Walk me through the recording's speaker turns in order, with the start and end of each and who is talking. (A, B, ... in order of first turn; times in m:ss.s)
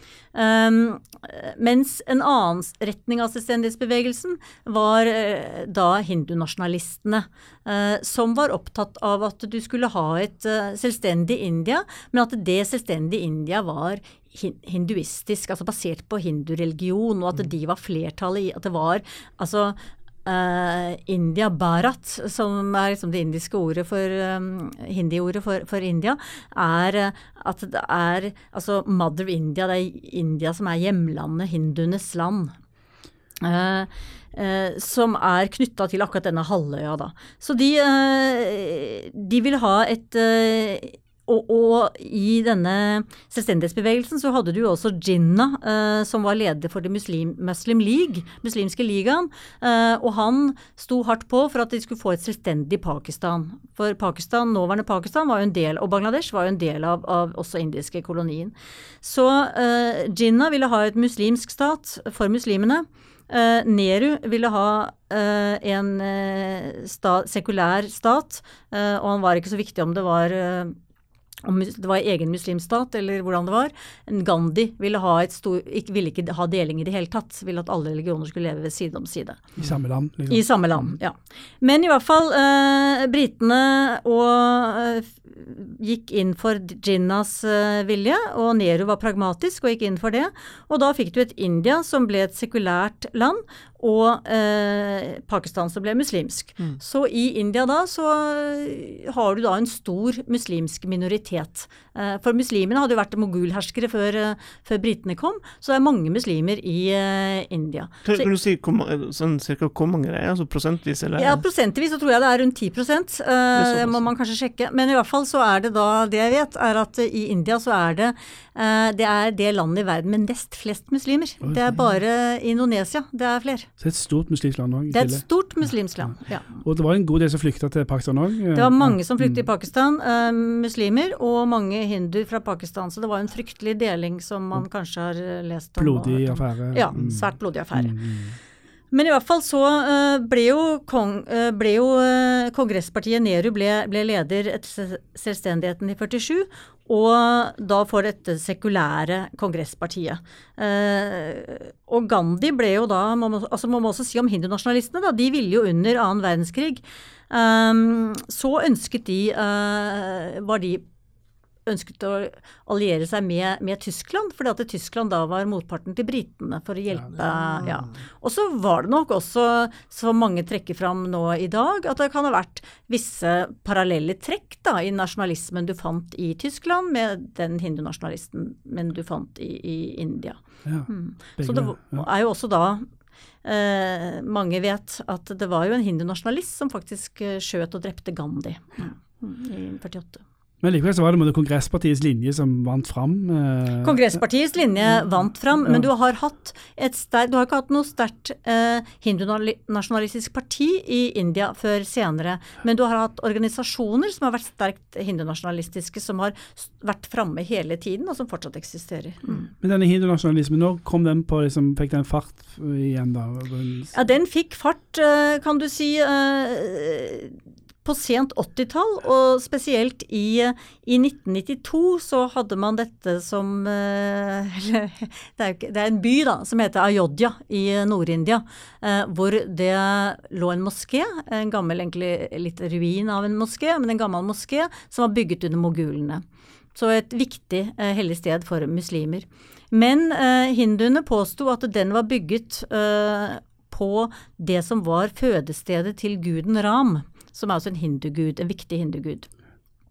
0:00.3-0:32.5 A
0:33.4-1:10.8 A
1:11.4-1:19.5 A
1:19.6-1:20.9 B
1:20.3-1:48.3 A
1:48.0-1:51.4 C
1:51.2-2:03.7 A
1:53.5-1:54.1 C
2:03.8-2:09.4 B
2:04.9-2:06.6 A
2:08.5-2:18.0 A
2:15.8-2:18.4 B
2:18.9-2:40.8 A
2:41.6-3:02.8 A
3:00.6-3:02.1 B
3:03.4-3:10.2 A
3:10.6-3:14.2 B
3:13.8-3:29.4 A
3:29.6-3:33.9 B
3:33.9-3:56.2 A
3:56.7-4:09.3 A